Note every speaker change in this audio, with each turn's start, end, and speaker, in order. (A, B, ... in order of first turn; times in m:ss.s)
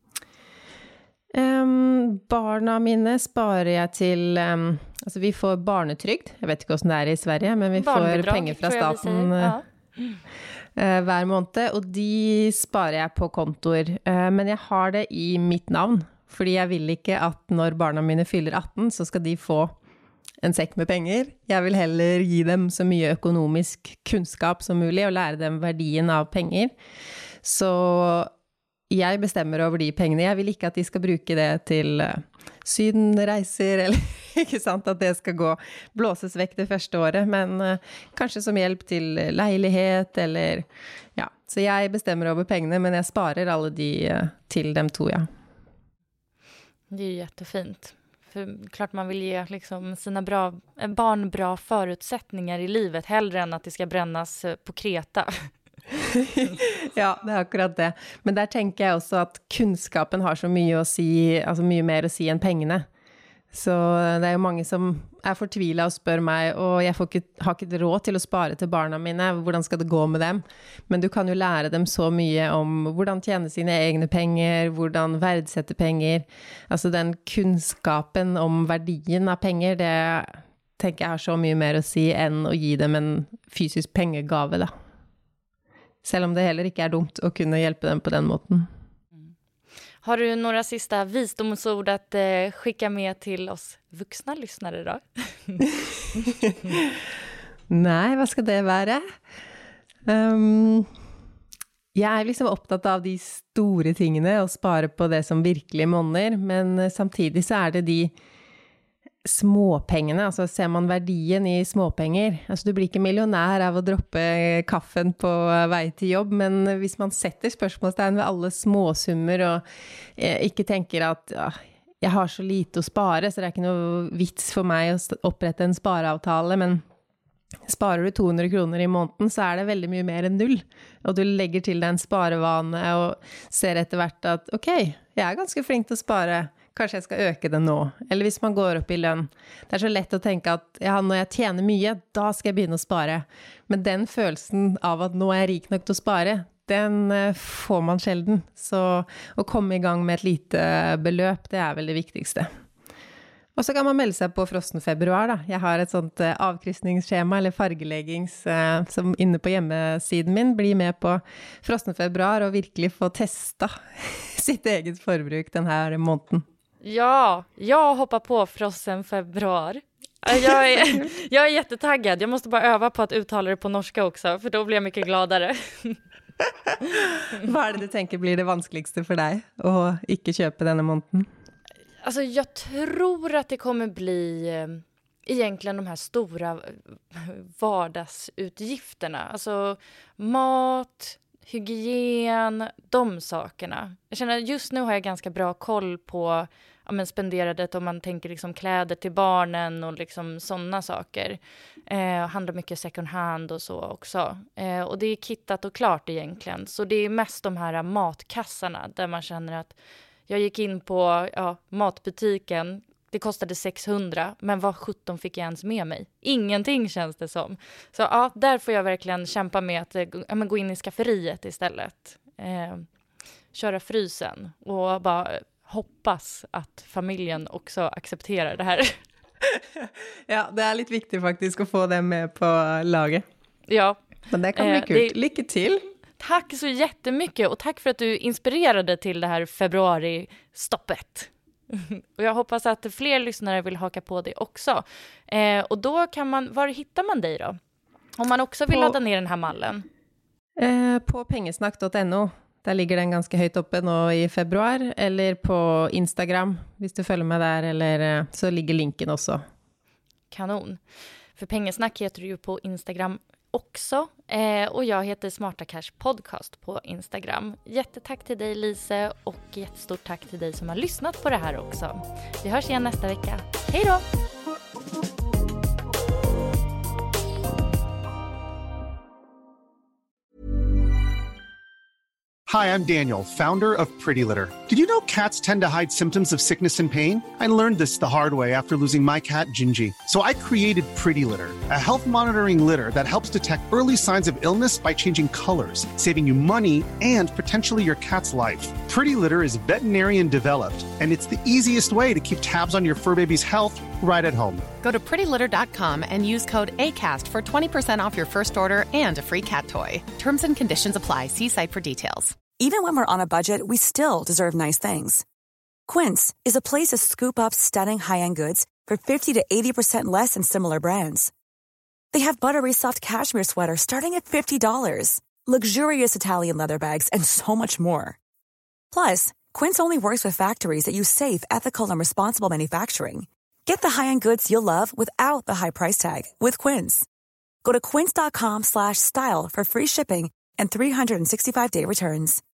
0:01.3-0:09.6 A
0:07.8-0:10.2 B
0:10.8-0:19.7 A
0:20.4-0:26.7 A
0:27.4-0:28.3 A
0:28.9-0:45.3 A
0:46.9-0:55.5 B
0:56.1-1:02.9 A
1:03.5-1:24.7 A
1:26.0-1:28.7 A
1:30.0-1:35.6 B
1:36.3-1:36.9 A
1:37.7-1:39.0 A
1:40.1-1:40.9 A
1:41.9-1:48.1 A
1:49.2-1:59.6 A
2:00.2-2:06.8 A
2:07.7-2:32.5 A
2:33.6-2:46.4 A
2:46.8-2:56.0 B
2:50.3-2:51.1 A
2:57.3-3:01.3 A
3:02.0-3:29.8 B
3:30.3-3:42.9 B
3:43.5-3:49.0 B
3:49.4-3:53.3 A
3:53.7-3:54.0 B
3:54.3-3:55.8 A
3:54.6-3:55.2 B
3:56.2-4:07.6 B
4:08.2-4:09.9 B
4:08.7-4:09.0 A
4:10.6-4:19.4 A
4:20.3-4:20.8 B
4:21.4-4:34.0 B
4:42.5-5:04.7 C
5:04.8-5:12.4 D
5:12.6-5:15.2 E
5:15.9-5:21.3 E
5:22.1-5:28.2 E
5:28.9-5:37.1 E
5:37.6-5:42.4 E